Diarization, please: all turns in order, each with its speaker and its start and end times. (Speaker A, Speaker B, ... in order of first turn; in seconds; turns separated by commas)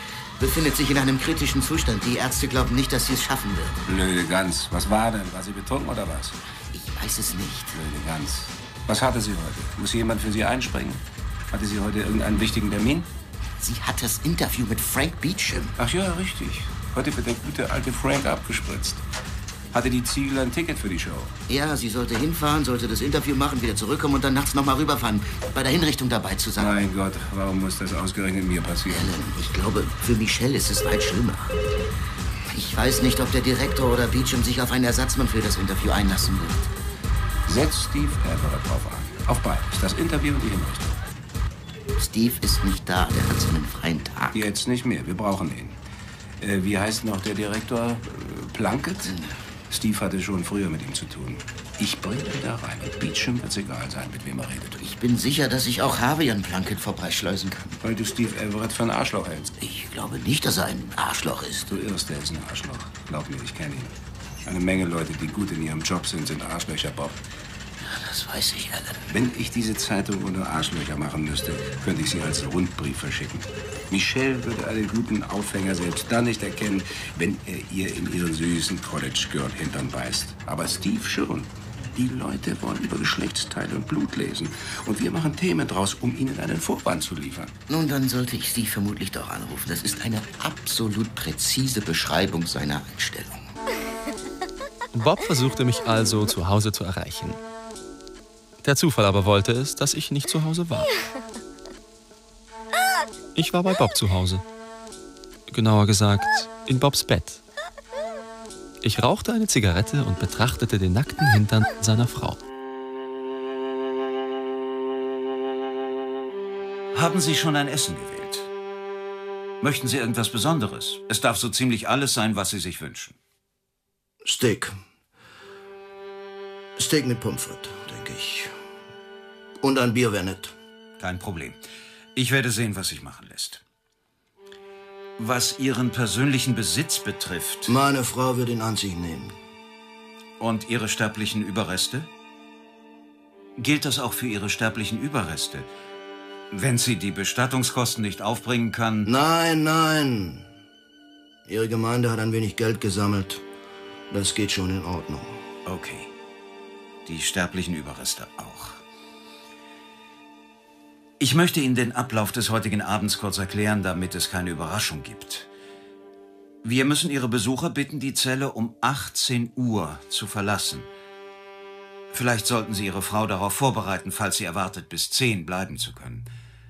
Speaker A: 0.4-3.8, Speaker B: 3.9-6.3, Speaker A: 6.7-7.7, Speaker B: 7.7-13.1, Speaker A: 13.6-15.8, Speaker B: 15.8-19.0, Speaker B: 19.7-21.3, Speaker A: 21.5-26.8, Speaker B: 26.6-29.1, Speaker A: 28.9-31.6, Speaker A: 32.5-36.7, Speaker B: 37.5-41.0, Speaker A: 42.0-44.4, Speaker B: 44.3-45.8, Speaker B: 46.4-49.2, Speaker A: 49.0-49.3, Speaker B: 49.7-54.8, Speaker A: 54.8-57.8, Speaker B: 57.8-59.5, Speaker A: 59.6-61.7, Speaker B: 61.7-63.9, Speaker B: 64.4-67.2, Speaker A: 67.8-69.1, Speaker B: 69.1-87.5, Speaker A: 87.7-93.5, Speaker C: 94.9-97.4, Speaker C: 98.6-100.9, Speaker C: 103.3-104.4, Speaker C: 105.5-107.4, Speaker C: 108.8-112.4, Speaker D: 116.9-118.5, Speaker D: 119.6-123.2, Speaker E: 124.2-124.8, Speaker E: 126.8-128.5, Speaker E: 129.6-130.5, Speaker D: 131.0-131.6, Speaker D: 132.1-133.6, Speaker D: 135.2-137.7, Speaker E: 137.7-139.3, Speaker D: 140.4-142.1, Speaker D: 143.6-145.7, Speaker D: 146.5-149.1, Speaker E: 149.1-150.5, Speaker E: 151.5-153.4, Speaker E: 154.1-155.4, Speaker D: 155.7-156.1, Speaker D: 157.1-158.8, Speaker D: 161.2-165.5, Speaker D: 166.6-170.9, Speaker D: 172.1-176.3